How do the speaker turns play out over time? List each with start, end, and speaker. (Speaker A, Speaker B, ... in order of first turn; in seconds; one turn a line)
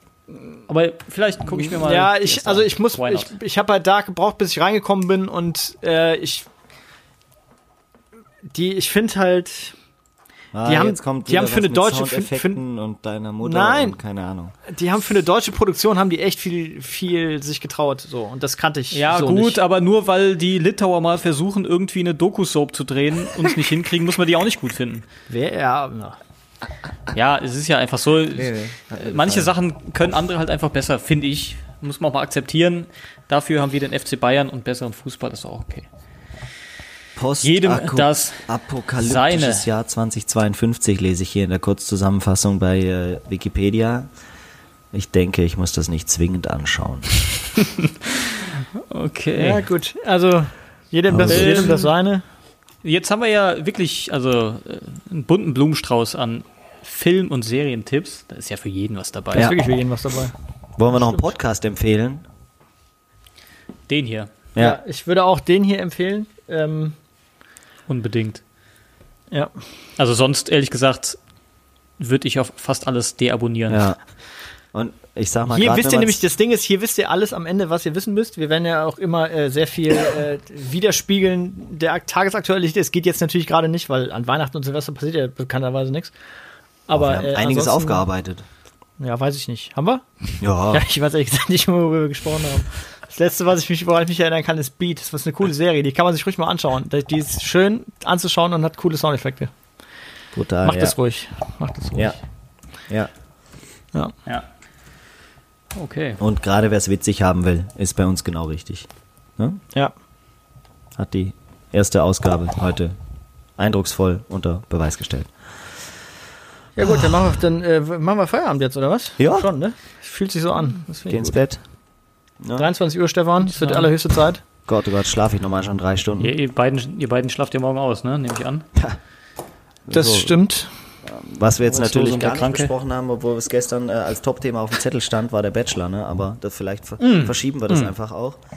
Speaker A: 0.7-3.3
Speaker B: 1.5-6.5
Speaker B: 8.5-9.8
Speaker C: 10.5-14.5
Speaker B: 10.7-12.6
Speaker B: 13.4-14.0
Speaker B: 14.7-19.6
Speaker A: 18.9-25.1
Speaker B: 25.3-26.2
Speaker A: 27.1-35.9
Speaker C: 28.4-29.5
Speaker C: 37.2-44.1
Speaker A: 37.4-38.5
Speaker A: 39.0-39.7
Speaker C: 44.9-47.1
Speaker A: 47.6-49.6
Speaker B: 49.4-52.2
Speaker C: 51.1-51.7
Speaker A: 51.3-51.9
Speaker A: 52.8-59.5
Speaker B: 59.4-60.3
Speaker C: 60.8-62.2
Speaker B: 60.9-61.2
Speaker A: 63.9-64.3
Speaker C: 64.5-64.8
Speaker B: 64.6-67.0
Speaker A: 67.9-68.4
Speaker A: 70.0-71.2
Speaker A: 72.0-73.9
Speaker C: 73.7-74.0
Speaker C: 74.7-76.2
Speaker B: 75.5-86.1
Speaker B: 86.9-88.0
Speaker C: 86.9-88.5
Speaker B: 89.0-90.0
Speaker C: 90.4-90.8
Speaker B: 90.7-99.5
Speaker C: 100.3-101.0
Speaker B: 100.6-102.2
Speaker A: 105.8-106.2
Speaker C: 106.2-109.6
Speaker C: 111.0-113.0
Speaker C: 113.6-115.3
Speaker B: 116.8-121.4
Speaker C: 119.2-119.5
Speaker C: 121.1-121.6
Speaker C: 122.4-122.7
Speaker B: 122.6-124.4
Speaker A: 123.5-123.9
Speaker C: 124.7-126.3
Speaker A: 126.2-128.7
Speaker C: 129.9-130.3
Speaker B: 129.9-130.7
Speaker C: 131.1-138.4
Speaker A: 131.7-132.7
Speaker A: 137.0-137.9